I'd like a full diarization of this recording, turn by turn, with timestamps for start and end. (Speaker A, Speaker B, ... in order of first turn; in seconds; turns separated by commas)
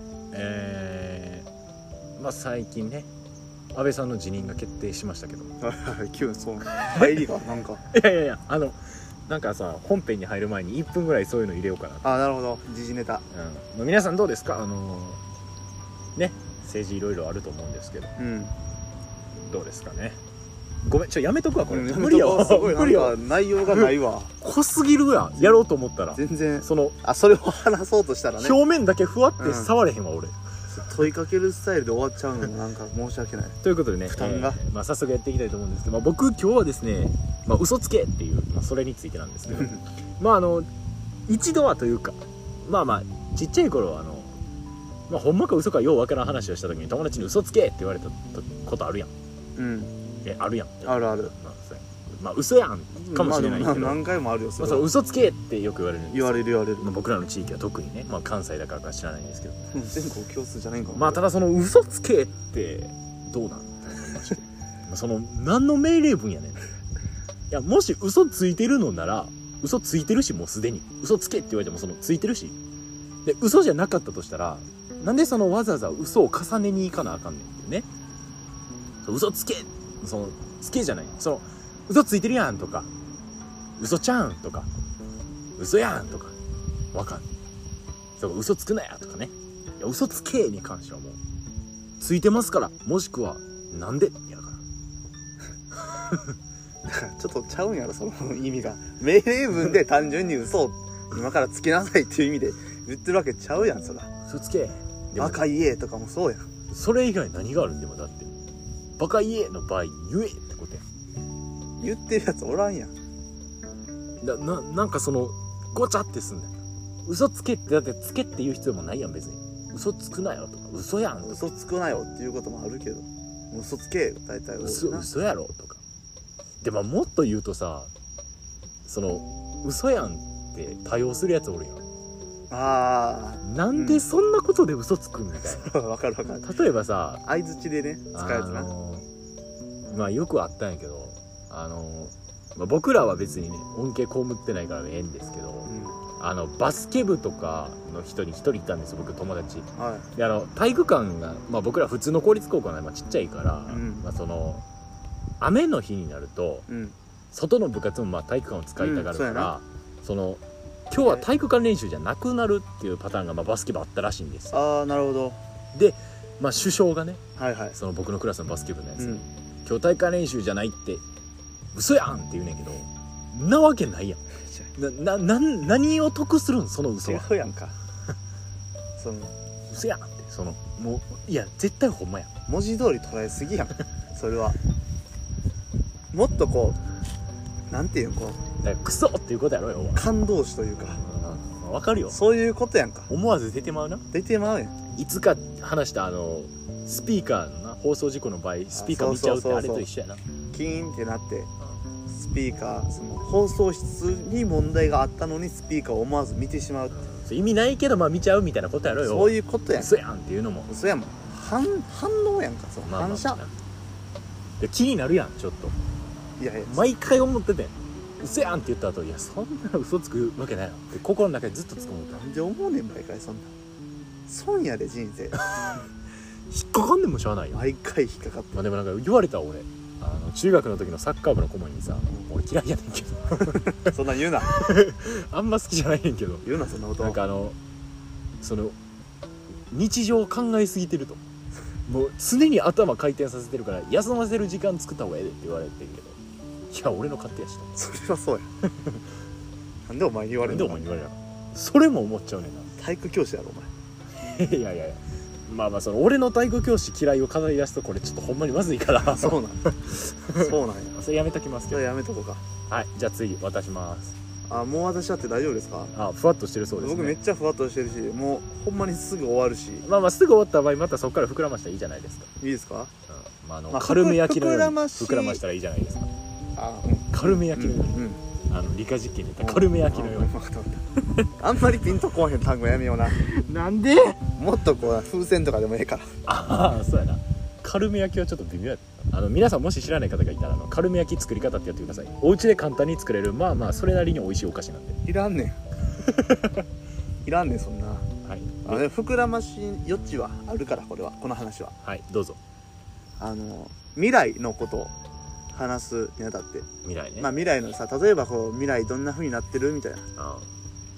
Speaker A: 0.3-1.5, Speaker A: 2.2-3.1, Speaker A: 3.7-5.5, Speaker B: 5.6-7.8, Speaker A: 6.8-7.2, Speaker A: 7.9-12.0, Speaker B: 12.0-13.2, Speaker A: 13.3-15.2, Speaker A: 16.1-18.1, Speaker B: 18.2-18.5, Speaker A: 19.4-20.2, Speaker A: 20.9-27.0, Speaker B: 21.7-24.3, Speaker B: 26.1-28.6, Speaker A: 28.4-30.3, Speaker B: 29.4-29.7, Speaker B: 30.7-34.6, Speaker A: 33.6-40.7, Speaker B: 39.5-39.8, Speaker A: 41.3-44.4, Speaker A: 45.1-49.1, Speaker B: 49.6-49.9, Speaker A: 50.2-54.0, Speaker B: 50.8-51.3, Speaker B: 52.9-54.9, Speaker A: 54.6-59.7, Speaker B: 56.1-56.9, Speaker B: 59.7-61.2, Speaker A: 60.9-66.6, Speaker A: 67.5-72.5, Speaker A: 73.2-77.9, Speaker A: 79.0-82.9, Speaker A: 83.8-84.7, Speaker A: 85.6-86.3, Speaker A: 86.9-87.2, Speaker A: 88.2-91.2, Speaker A: 92.0-94.6, Speaker B: 96.8-104.1, Speaker A: 104.3-105.5, Speaker B: 105.2-106.5, Speaker A: 106.7-108.4, Speaker A: 109.0-110.8, Speaker B: 111.8-112.9, Speaker A: 114.2-116.5, Speaker A: 117.0-121.4, Speaker B: 121.2-125.1, Speaker A: 124.6-125.8, Speaker A: 126.6-127.9, Speaker A: 128.8-131.8, Speaker B: 132.5-134.0, Speaker A: 133.4-135.7, Speaker B: 135.4-136.5, Speaker A: 136.4-137.2, Speaker B: 137.2-138.7, Speaker A: 138.1-139.0, Speaker A: 139.9-154.6, Speaker B: 145.7-146.0, Speaker B: 149.8-150.1, Speaker B: 153.7-154.1, Speaker A: 155.4-156.7, Speaker B: 156.7-156.9, Speaker A: 157.3-164.6, Speaker B: 158.8-159.5, Speaker B: 164.5-165.4, Speaker A: 165.7-167.2, Speaker B: 167.4-167.8, Speaker A: 167.7-171.0, Speaker B: 169.0-169.2, Speaker A: 171.7-174.2, Speaker B: 174.4-174.7, Speaker A: 174.8-177.3, Speaker B: 177.0-177.8, Speaker B: 179.0-179.3, Speaker A: 179.7-182.3, Speaker B: 182.5-184.6, Speaker B: 186.1-186.8, Speaker B: 187.7-188.4, Speaker A: 188.6-190.1, Speaker B: 189.9-191.0, Speaker A: 190.8-192.2, Speaker B: 192.1-193.1, Speaker A: 193.1-194.1, Speaker B: 194.1-194.8, Speaker A: 194.9-200.2, Speaker B: 198.7-199.9, Speaker B: 200.5-201.5, Speaker B: 202.1-207.0, Speaker A: 206.9-210.7, Speaker B: 209.0-209.9, Speaker B: 210.7-213.4, Speaker A: 212.8-213.5, Speaker A: 214.6-215.7, Speaker B: 216.4-216.9, Speaker A: 216.7-222.2, Speaker B: 222.1-223.5, Speaker B: 224.3-225.4, Speaker A: 226.5-227.6, Speaker B: 227.5-228.6, Speaker A: 228.5-233.9, Speaker B: 233.7-234.5, Speaker A: 234.5-236.5, Speaker B: 236.4-237.2, Speaker A: 237.0-237.6, Speaker A: 238.4-238.8, Speaker A: 239.7-241.2, Speaker A: 241.9-246.2, Speaker A: 246.7-247.7, Speaker B: 247.7-248.4, Speaker A: 248.7-249.0, Speaker B: 249.9-250.9, Speaker A: 250.4-252.7, Speaker B: 252.8-253.7, Speaker A: 254.2-261.8, Speaker B: 259.0-259.6, Speaker B: 260.3-260.9, Speaker B: 261.7-262.4, Speaker A: 262.7-264.1, Speaker B: 264.5-265.9, Speaker A: 265.9-267.2, Speaker B: 266.8-269.9, Speaker A: 269.8-272.3, Speaker B: 272.4-272.9, Speaker A: 273.1-276.1, Speaker B: 273.7-275.4, Speaker B: 276.6-278.2, Speaker A: 277.1-280.3, Speaker B: 279.4-280.8, Speaker B: 281.4-283.2, Speaker A: 283.2-284.2, Speaker B: 284.4-286.1, Speaker A: 286.2-295.0, Speaker B: 295.0-295.6, Speaker A: 296.0-296.6, Speaker B: 297.2-298.1, Speaker A: 298.2-298.8, Speaker B: 298.6-301.7, Speaker A: 301.8-302.4, Speaker B: 303.2-304.9, Speaker B: 305.5-310.1, Speaker A: 306.8-307.3, Speaker A: 310.1-310.5